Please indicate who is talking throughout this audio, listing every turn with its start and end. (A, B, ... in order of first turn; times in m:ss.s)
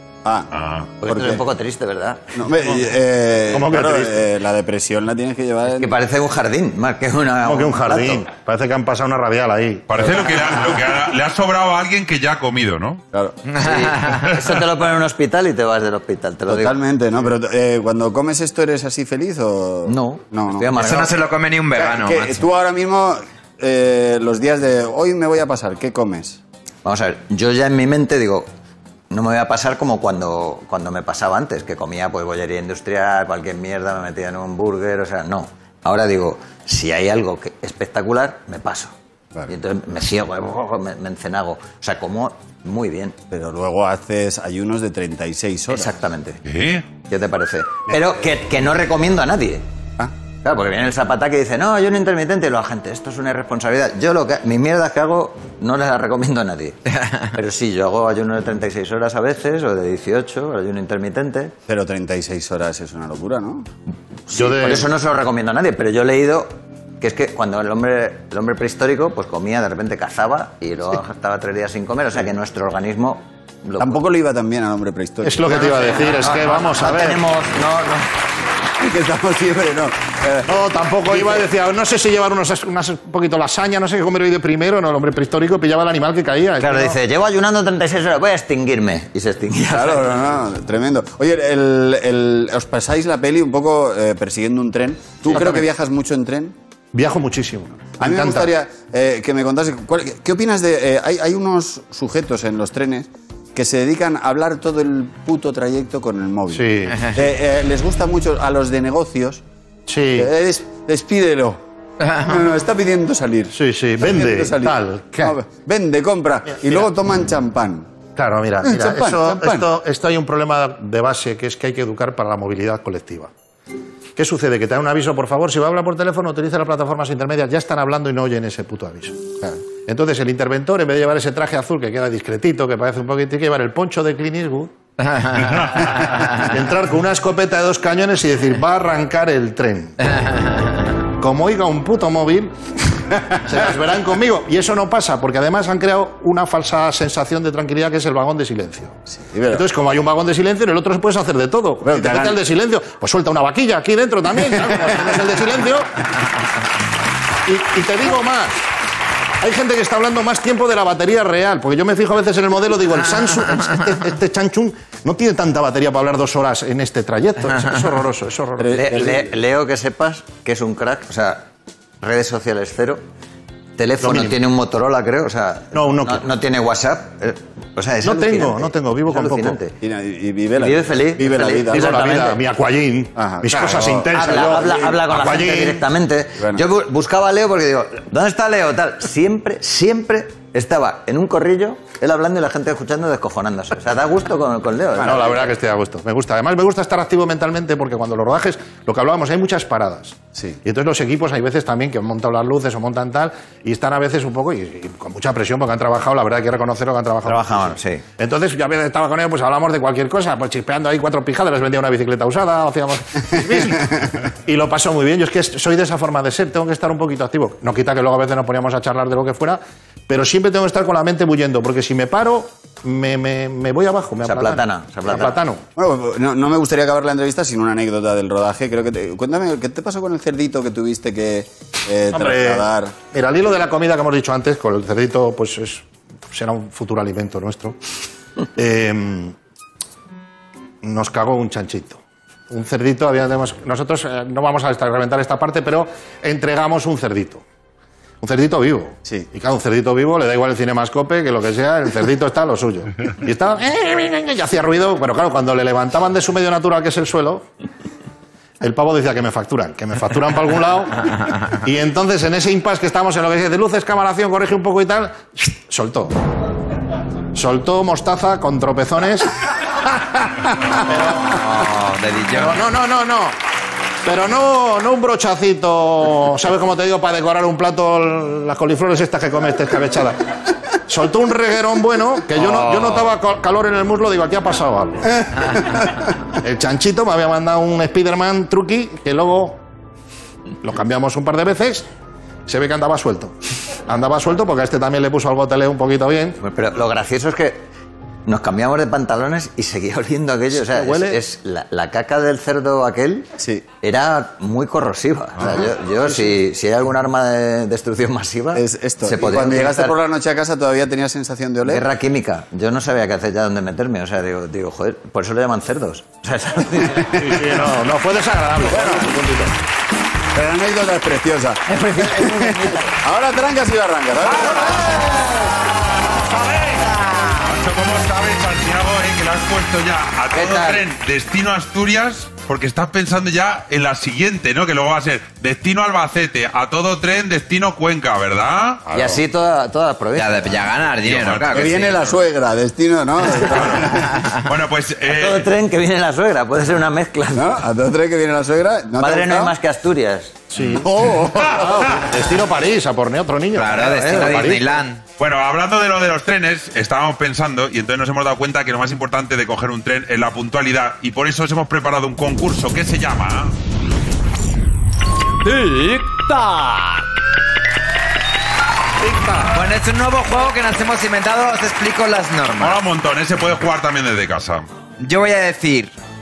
0:00.2-0:00.5 A
0:00.5-0:00.9 B
0:01.0-0:02.3 C
0:01.1-0:01.4 A
0:02.3-0:05.9 A
0:03.5-0:04.2 D
0:05.7-0:08.2 C
0:07.4-0:09.9 D
0:09.9-0:13.0 B
0:13.1-0:13.4 A
0:13.6-0:16.8 C
0:13.6-0:14.3 E
0:16.5-0:21.0 A
0:19.9-0:21.2 C
0:20.8-0:22.4 E
0:21.7-0:26.4 A
0:26.8-0:28.5 C
0:29.1-0:38.9 C
0:39.5-0:43.2 C
0:43.3-0:45.9 A
0:45.7-0:46.4 C
0:46.4-0:46.9 B
0:47.1-0:49.6 C
0:50.4-1:01.5 C
1:01.7-1:03.7 A
1:04.3-1:14.0 C
1:04.3-1:04.9 D
1:13.8-1:15.8 A
1:15.2-1:17.2 D
1:15.5-1:18.1 C
1:18.8-1:21.4 A
1:20.5-1:27.0 D
1:26.6-1:30.2 C
1:29.7-1:36.6 A
1:35.3-1:35.6 D
1:36.9-1:38.5 D
1:38.0-1:49.4 A
1:46.5-1:47.1 D
1:49.9-1:50.3 D
1:50.2-1:57.9 A
1:53.5-1:55.4 D
1:58.2-2:03.3 D
1:58.6-1:59.7 A
2:04.2-2:09.2 D
2:09.9-2:14.7 D
2:15.9-2:20.0 D
2:21.2-2:22.5 D
2:23.1-2:29.0 D
2:29.1-2:29.6 A
2:29.5-2:36.0 D
2:31.8-2:32.4 A
2:37.4-2:38.6 D
2:39.4-2:48.8 D
2:48.6-2:49.3 A
2:48.7-2:51.5 C
2:52.0-2:53.0 C
2:53.8-2:59.8 C
2:54.0-2:54.4 D
2:55.7-2:56.3 D
2:58.0-2:59.6 D
2:59.8-3:02.0 A
3:00.6-3:02.4 C
3:01.7-3:05.8 D
3:03.2-3:05.0 A
3:04.1-3:15.5 C
3:06.4-3:06.6 A
3:14.9-3:15.3 A
3:15.0-3:45.6 D
3:27.2-3:28.0 C
3:44.2-3:45.4 C
3:45.8-3:53.0 A
3:52.1-3:57.8 D
3:58.6-3:59.4 D
4:00.8-4:07.4 D
4:08.2-4:17.5 D
4:18.6-4:26.1 D
4:27.3-4:29.3 D
4:30.7-4:31.4 D
4:31.3-4:32.6 E
4:32.3-4:33.4 D
4:34.0-4:40.3 D
4:40.9-4:45.2 D
4:45.2-4:45.9 A
4:46.4-4:49.6 D
4:50.6-4:51.9 D
4:52.5-4:53.4 D
4:53.9-4:56.4 D
4:56.4-4:57.6 C
4:58.3-5:03.3 C
5:00.5-5:01.2 D
5:03.4-5:03.6 A
5:03.8-5:10.0 C
5:08.5-5:11.8 A
5:11.7-5:17.4 C
5:17.1-5:19.5 D
5:18.6-5:19.2 A
5:20.3-5:25.3 A
5:21.7-5:22.9 C
5:24.4-5:25.0 B
5:26.1-5:39.2 B
5:30.3-5:30.8 C
5:38.9-5:40.7 C
5:40.2-5:42.0 E
5:41.0-5:41.9 B
5:41.5-5:44.1 A
5:43.4-5:45.5 B
5:44.0-5:44.4 E
5:45.1-5:47.6 C
5:47.3-5:49.5 A
5:49.0-5:50.4 C
5:50.5-5:54.7 D
5:50.6-5:52.1 A
5:53.6-5:55.0 E
5:55.2-6:03.5 B
6:09.0-6:09.6 D
6:09.5-6:12.8 E
6:12.6-6:14.7 B
6:15.0-6:15.9 E